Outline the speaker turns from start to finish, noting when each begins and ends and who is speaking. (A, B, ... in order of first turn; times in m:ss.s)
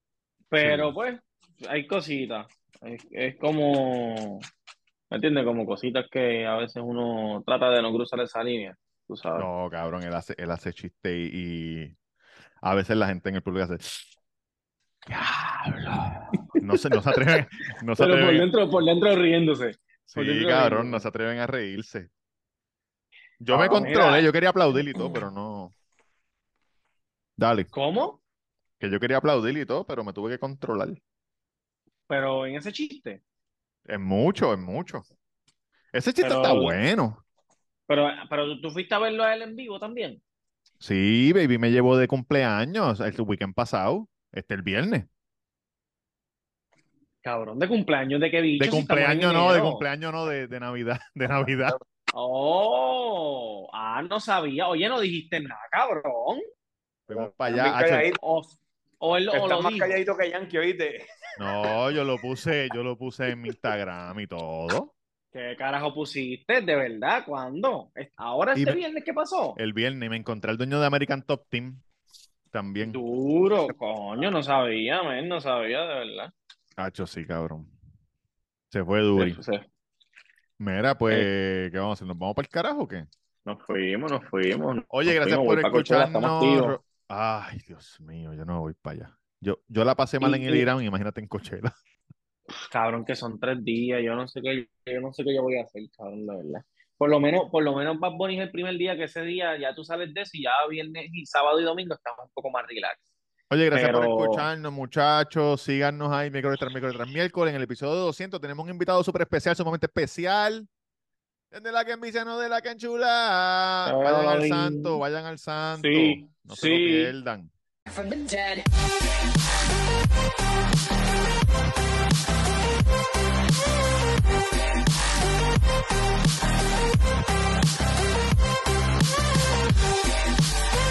0:00.5-0:04.5 A
0:00.6-0:00.9 B
0:05.1-0:09.5 A
0:09.4-0:12.0 B
0:12.6-0:14.1 B
0:15.1-0:18.5 B
0:18.0-0:21.1 A
0:20.1-0:22.1 B
0:23.4-0:25.7 B
0:23.5-0:24.3 A
0:27.4-0:27.7 B
0:27.7-0:28.2 A
0:28.8-0:31.0 B
0:32.1-0:33.2 A
0:33.9-0:35.0 B
0:35.9-0:37.2 B
0:36.2-0:36.8 A
0:37.9-0:40.2 A
0:40.8-0:45.1 B
0:47.2-0:49.9 A
0:48.6-0:51.8 B
0:52.1-0:56.4 A
0:57.1-0:58.1 B
0:57.1-0:58.2 C
0:58.2-1:00.0 A
0:59.3-1:01.1 C
1:01.4-1:04.9 B
1:05.3-1:09.6 A
1:09.6-1:11.8 B
1:12.5-1:13.0 B
1:12.8-1:16.3 A
1:16.8-1:17.7 B
1:18.7-1:19.4 B
1:19.2-1:19.6 A
1:20.6-1:23.1 B
1:23.5-1:26.8 A
1:24.9-1:31.7 B
1:30.2-1:30.7 A
1:32.7-1:43.0 A
1:43.5-1:50.7 B
1:43.7-1:44.5 A
1:51.5-1:57.5 B
1:53.8-1:55.0 A
1:55.8-1:57.1 A